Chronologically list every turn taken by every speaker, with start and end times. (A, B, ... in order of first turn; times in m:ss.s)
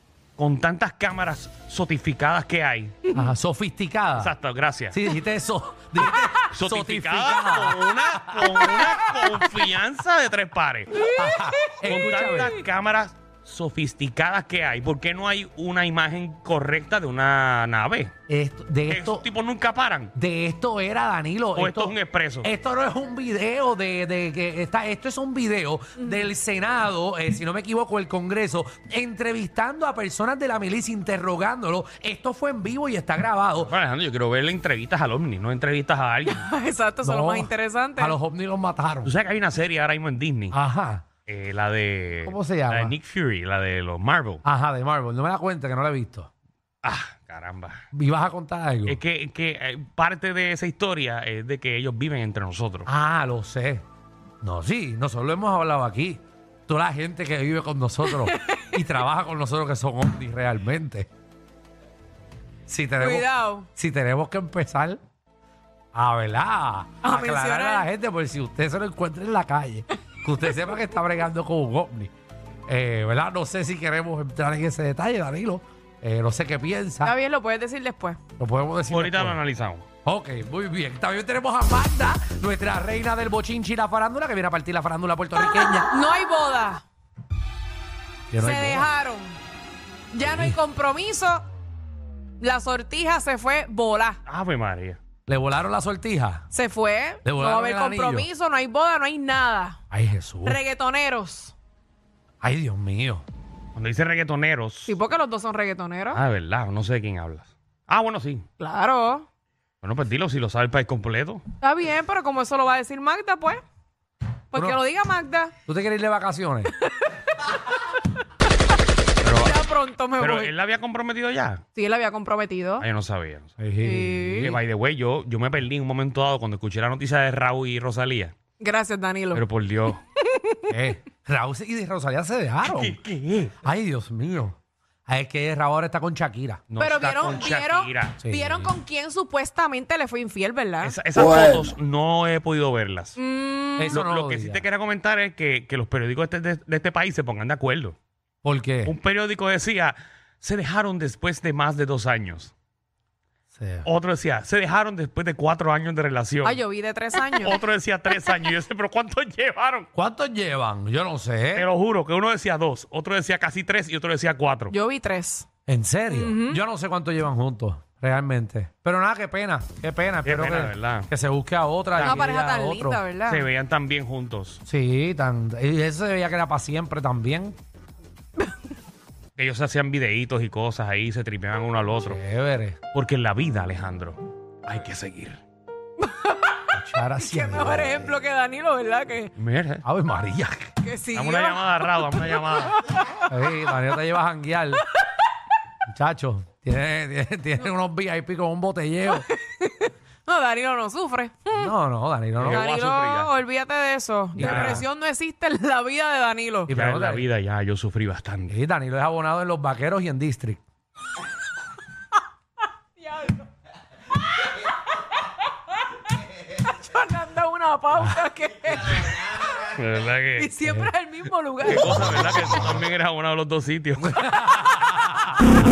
0:00.4-0:03.0 A
0:03.1-0:04.3 B
0:04.2-0:05.0 A
0:04.9-0:09.4 B
0:06.0-0:11.0 A
0:11.1-0:12.6 B
0:11.8-0:18.1 A
0:18.3-0:19.3 B
0:18.9-0:20.1 A
0:20.2-0:33.7 B
0:21.6-0:22.5 A
0:33.6-0:36.5 A
0:36.3-0:38.2 C
0:37.0-0:39.1 B
0:39.0-0:40.6 A
0:40.5-0:41.1 B
0:41.3-0:44.4 A
0:42.2-0:43.0 B
0:44.4-0:46.3 B
0:46.8-0:47.8 A
0:47.9-0:49.0 B
0:48.9-0:52.9 A
0:52.9-0:53.8 B
0:54.4-1:01.1 B
0:58.1-0:58.6 C
1:02.7-1:05.0 B
1:03.0-1:03.7 C
1:05.9-1:12.1 B
1:07.0-1:07.9 C
1:12.7-1:17.1 B
1:17.0-1:18.2 C
1:18.4-1:19.4 B
1:18.9-1:19.9 A
1:20.0-1:25.9 B
1:25.9-1:26.8 C
1:28.3-1:28.9 B
1:28.4-1:29.4 C
1:30.1-1:31.5 C
1:30.2-1:30.6 B
1:32.4-1:34.2 C
1:34.3-1:35.0 A
1:35.3-1:36.5 B
1:36.5-1:39.8 C
1:37.2-1:38.3 B
1:39.9-1:40.6 B
1:40.4-1:41.5 C
1:42.4-1:43.2 B
1:43.8-1:45.0 A
1:44.9-1:46.2 C
1:46.1-1:48.5 A
1:48.6-1:49.3 C
1:49.8-1:51.4 A
1:51.6-1:53.6 C
1:54.5-1:55.5 C
1:54.5-1:54.8 B
1:55.7-1:56.7 B
1:59.2-1:59.6 A
1:59.3-2:00.5 C
2:00.2-2:01.6 A
2:01.8-2:02.9 C
2:02.8-2:03.6 A
2:03.6-2:04.6 B
2:03.8-2:04.6 C
2:04.4-2:08.3 A
2:08.6-2:09.5 C
2:09.4-2:10.0 A
2:10.2-2:10.7 C
2:10.7-2:13.0 B
2:12.6-2:13.6 A
2:13.6-2:16.6 B
2:16.7-2:18.7 A
2:16.8-2:21.0 C
2:20.8-2:23.2 A
2:23.2-2:23.9 C
2:23.8-2:24.6 B
2:23.9-2:28.0 A
2:28.4-2:29.0 B
2:28.9-2:32.5 A
2:33.6-2:33.9 B
2:33.8-2:36.6 A
2:36.4-2:37.6 C
2:37.1-2:39.9 A
2:39.9-2:41.7 B
2:41.6-2:44.8 A
2:44.7-2:45.5 C
2:45.7-2:53.0 B
2:46.1-2:46.6 C
2:50.2-2:51.1 A
2:52.0-2:52.3 A
2:52.0-2:53.5 C
2:53.3-2:54.6 A
2:54.7-2:57.6 B
2:59.4-3:02.2 A
3:02.0-3:02.8 B
3:02.9-3:05.4 A
3:06.0-3:06.6 C
3:06.8-3:08.2 B
3:07.2-3:09.4 C
3:09.4-3:09.8 A
3:09.8-3:10.7 B
3:10.8-3:13.2 C
3:11.1-3:12.8 A
3:13.3-3:14.9 B
3:15.9-3:19.3 B
3:19.2-3:21.7 C
3:21.5-3:22.7 B
3:22.4-3:23.3 A
3:22.5-3:26.7 C
3:24.4-3:24.9 B
3:24.4-3:24.8 A
3:26.7-3:27.3 B
3:26.7-3:28.6 A
3:28.5-3:30.6 B
3:33.0-3:33.5 C
3:36.5-3:39.7 C
3:39.7-3:40.5 A
3:40.4-3:42.3 C
3:40.6-3:40.9 B
3:41.6-3:44.4 A
3:44.0-3:45.4 B